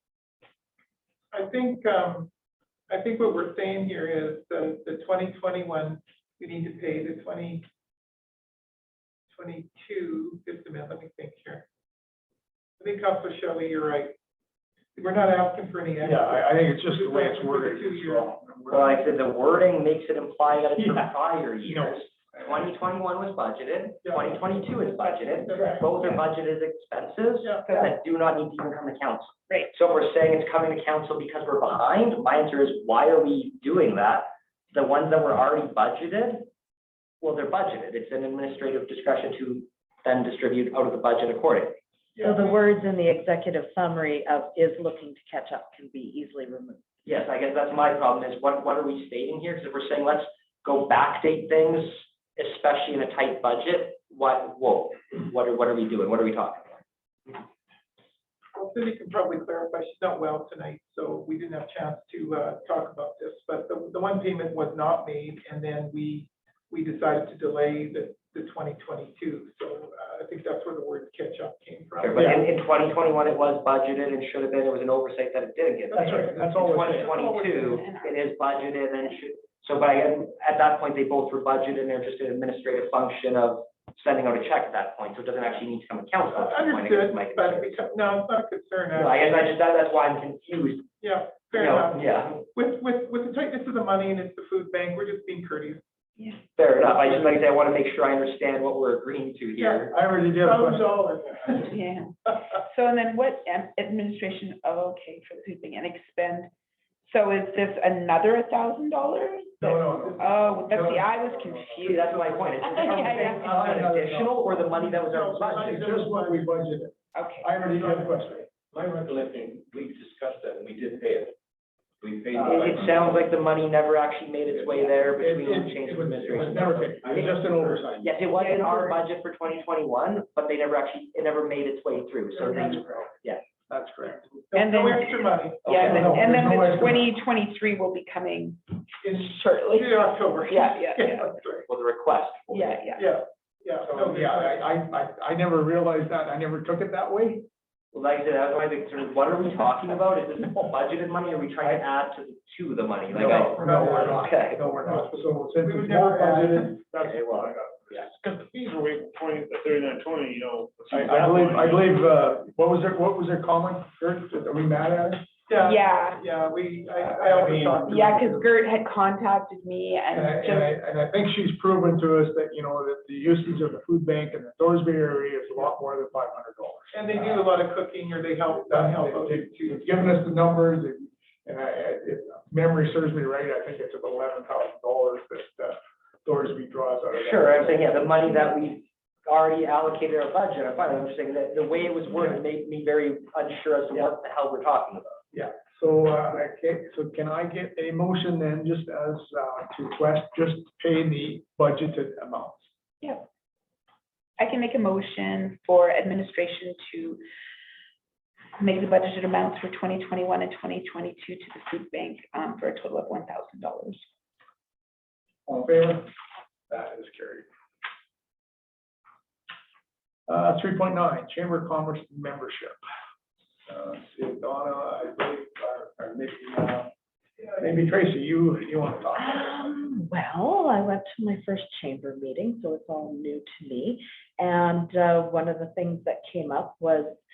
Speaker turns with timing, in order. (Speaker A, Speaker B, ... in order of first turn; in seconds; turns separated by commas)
Speaker A: 1.3-2.3, Speaker A: 2.9-7.7, Speaker A: 9.3-11.7, Speaker A: 12.8-14.2, Speaker A: 14.9-18.3, Speaker B: 16.0-19.1, Speaker C: 18.7-36.5, Speaker B: 20.8-21.1, Speaker B: 21.6-22.4, Speaker A: 24.1-25.9, Speaker D: 27.7-27.9, Speaker C: 37.2-41.8, Speaker E: 42.2-46.8, Speaker C: 47.1-56.8, Speaker A: 58.5-72.2, Speaker C: 72.0-87.8, Speaker B: 72.1-72.5, Speaker B: 75.9-77.2, Speaker D: 76.9-78.4, Speaker A: 86.4-89.5, Speaker C: 88.9-90.9, Speaker A: 91.0-95.8, Speaker C: 91.5-92.5, Speaker C: 96.6-99.9, Speaker A: 99.6-99.8, Speaker B: 99.9-101.8, Speaker A: 100.4-101.5, Speaker D: 101.6-106.5, Speaker D: 107.1-113.8, Speaker B: 109.6-114.7, Speaker C: 111.8-116.0, Speaker A: 115.1-116.5, Speaker B: 115.5-118.5, Speaker D: 117.1-117.5, Speaker F: 117.8-121.3, Speaker F: 122.0-123.3, Speaker C: 122.4-127.4, Speaker B: 125.1-128.1, Speaker F: 126.6-128.1, Speaker C: 128.0-133.4, Speaker D: 128.3-129.0, Speaker B: 133.7-134.3, Speaker A: 134.5-135.7, Speaker D: 134.5-141.3, Speaker B: 135.7-137.1, Speaker A: 139.8-141.6, Speaker C: 141.7-142.9, Speaker D: 142.5-143.0, Speaker A: 143.0-144.5, Speaker B: 143.8-147.5, Speaker C: 147.9-154.9, Speaker B: 153.1-157.8, Speaker A: 153.6-154.0, Speaker A: 155.7-156.6, Speaker G: 155.8-161.9, Speaker B: 160.9-165.3, Speaker A: 165.5-167.8, Speaker D: 165.6-166.2, Speaker G: 167.2-167.9, Speaker B: 167.2-168.5, Speaker D: 167.8-170.7, Speaker B: 170.1-177.5, Speaker A: 176.9-179.8, Speaker B: 178.6-188.2, Speaker C: 187.1-195.2, Speaker B: 195.3-202.7, Speaker D: 203.0-203.3, Speaker D: 204.4-207.2, Speaker D: 208.6-214.1, Speaker B: 215.5-216.1, Speaker B: 216.7-217.5, Speaker B: 220.3-222.8, Speaker B: 223.7-226.9, Speaker B: 227.6-229.8, Speaker E: 229.2-237.2